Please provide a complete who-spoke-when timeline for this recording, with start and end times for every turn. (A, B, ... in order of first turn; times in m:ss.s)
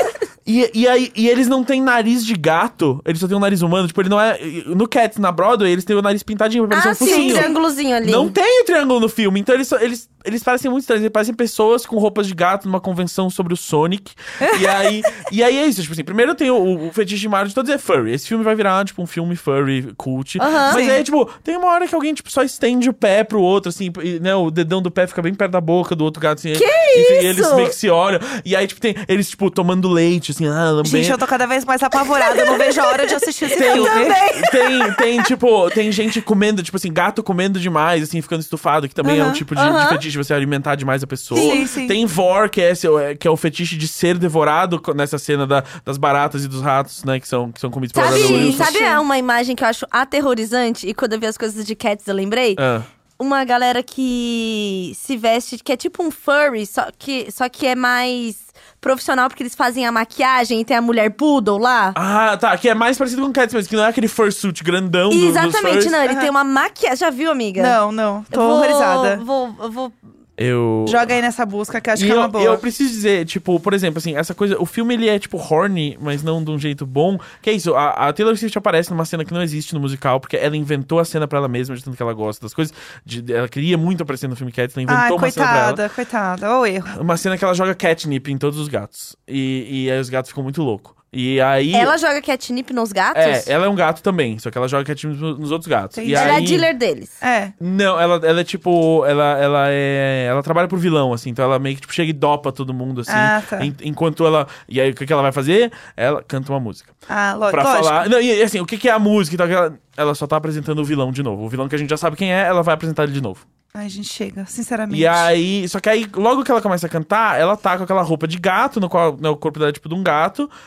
0:00.4-0:07.5 A
0:06.7-0:08.3 B
0:07.0-0:07.6 C
0:08.0-0:31.2 A
0:14.4-0:14.7 C
0:20.4-0:20.8 B
0:20.7-0:21.0 C
0:26.5-0:27.7 B
0:30.8-0:34.2 C
0:32.2-0:35.0 B
0:33.6-0:48.8 A
0:39.0-0:39.4 C
0:39.5-0:40.0 B
0:41.3-0:42.0 C
0:41.3-0:41.6 B
0:47.9-0:52.6 B
0:48.0-0:49.0 C
0:52.6-0:52.9 A
0:53.2-1:02.0 B
1:01.9-1:06.0 A
1:05.1-1:07.8 B
1:06.0-1:06.3 C
1:07.6-1:09.2 C
1:08.3-1:09.9 B
1:10.4-1:11.1 A
1:10.8-1:12.6 C
1:12.0-1:25.8 A
1:24.9-1:26.9 C
1:26.9-1:31.9 A
1:31.7-1:33.5 B
1:33.1-1:36.7 A
1:36.0-1:36.6 C
1:36.1-1:37.1 B
1:37.2-1:37.5 C
1:37.6-1:46.9 A
1:43.1-1:43.7 C
1:47.1-1:48.0 C
1:47.5-1:53.4 A
1:53.7-1:55.3 C
1:54.9-2:00.5 A